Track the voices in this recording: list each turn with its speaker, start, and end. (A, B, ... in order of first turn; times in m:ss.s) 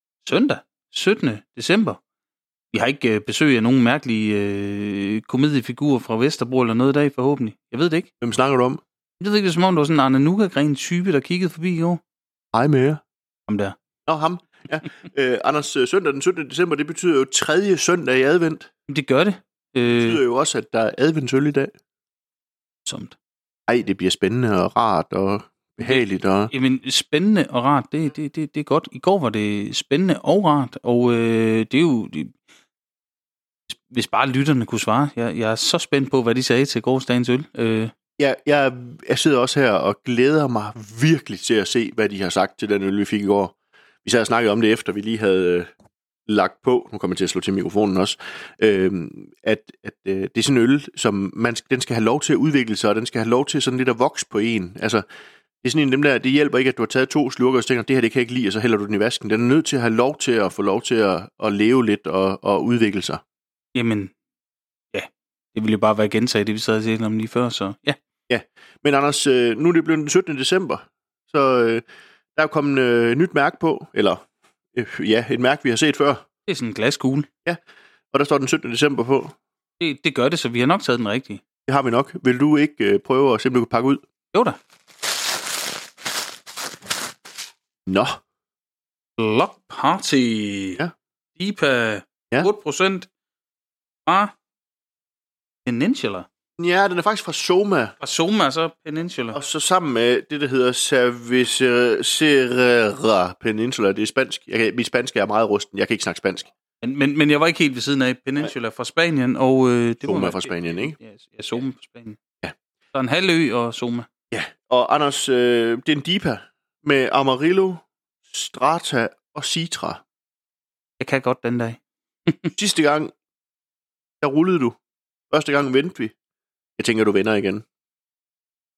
0:00.2-0:02.0 A
0:02.7-0:08.1 A
0:08.2-0:08.8 B
0:09.2-0:12.0 A
0:12.5-0:13.0 B
0:13.5-0:13.8 A
0:14.1-0:18.7 B
0:18.9-0:20.2 A
0:19.9-0:21.7 B
0:22.8-0:23.2 A
0:23.7-0:26.5 B
0:25.8-0:32.4 A
0:33.7-0:37.9 A
0:38.2-0:45.7 B
0:46.3-0:55.0 B
0:55.6-1:03.2 B
1:03.8-1:04.1 A
1:04.9-1:08.0 A
1:08.3-1:11.8 B
1:12.4-1:16.2 B
1:16.5-1:17.3 A
1:18.1-1:19.4 B
1:19.8-1:21.4 A
1:21.7-1:24.0 B
1:27.9-1:28.2 B
1:29.2-1:30.8 A
1:31.4-1:33.1 A
1:34.1-1:34.3 A
1:35.6-1:36.3 A
1:36.6-1:38.0 B
1:38.0-1:39.4 A
1:39.3-1:46.5 B
1:46.8-1:52.2 A
1:50.0-1:51.0 B
1:52.9-1:54.1 A
1:54.3-2:00.0 B
2:01.0-2:02.5 A
2:02.6-2:03.1 B
2:04.2-2:04.8 B
2:05.3-2:06.1 B
2:06.8-2:07.6 B